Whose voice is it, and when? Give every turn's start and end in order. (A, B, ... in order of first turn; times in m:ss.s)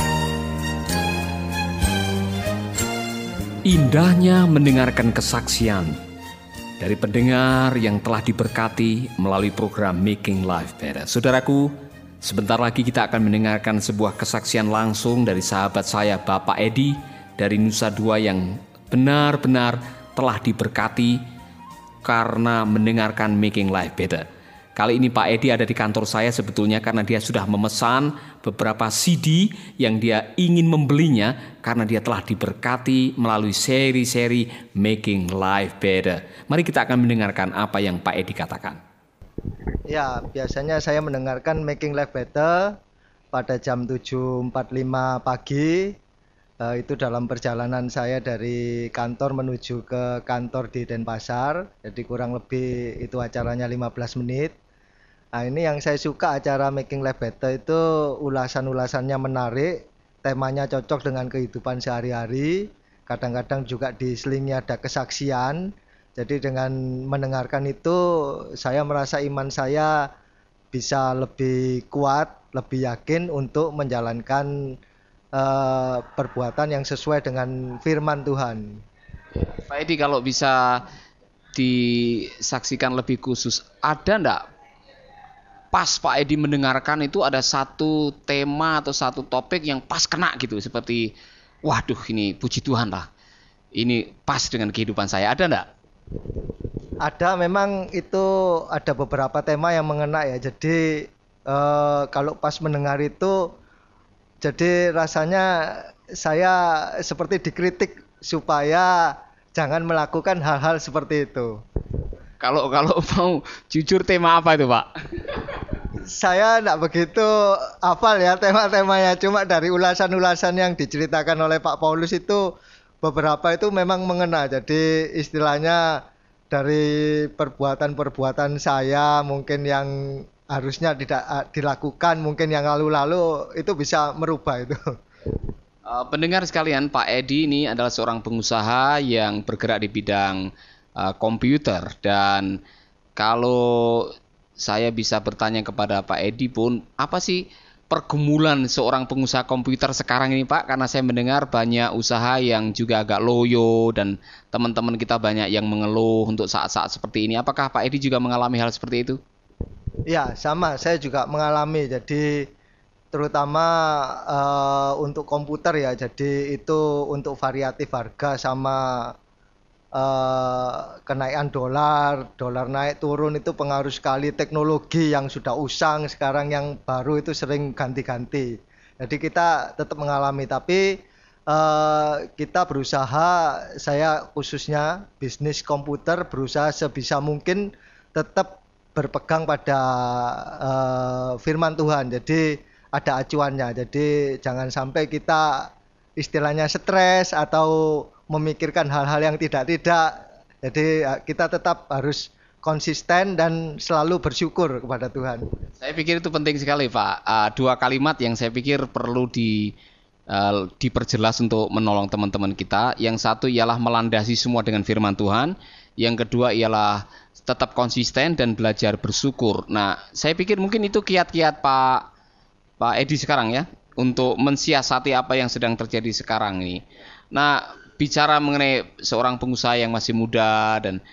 0:03.7-0:04.7 A
0:06.8-0:07.3 A
0:09.2-0:11.7 A
0:12.3-0:15.8 A
0:17.5-0:21.2 A
0:22.0-0:24.2 A
0:24.8-0:29.2 A
0:29.8-0:38.8 A
0:39.9-0:42.7 B
0:43.3-0:45.9 B
0:46.6-0:54.5 B
0:55.3-1:10.1 B
1:10.7-1:14.8 B
1:15.4-1:18.8 B
1:19.3-1:20.8 A
1:21.5-1:24.4 A
1:25.7-1:31.1 A
1:31.6-1:33.1 A
1:33.8-1:35.7 A
1:37.0-1:43.4 B
1:44.4-1:51.6 B
1:52.4-1:55.6 A
1:56.1-2:02.4 B
2:03.0-2:05.9 B
2:06.5-2:14.8 B
2:15.8-2:22.6 A
2:23.2-2:39.2 A
2:40.1-2:42.5 B
2:43.1-2:49.1 B
2:49.9-3:01.0 B
3:01.5-3:25.4 B
3:25.8-3:29.7 A
3:30.3-3:42.1 A
3:42.8-3:46.8 A
3:47.3-3:51.0 A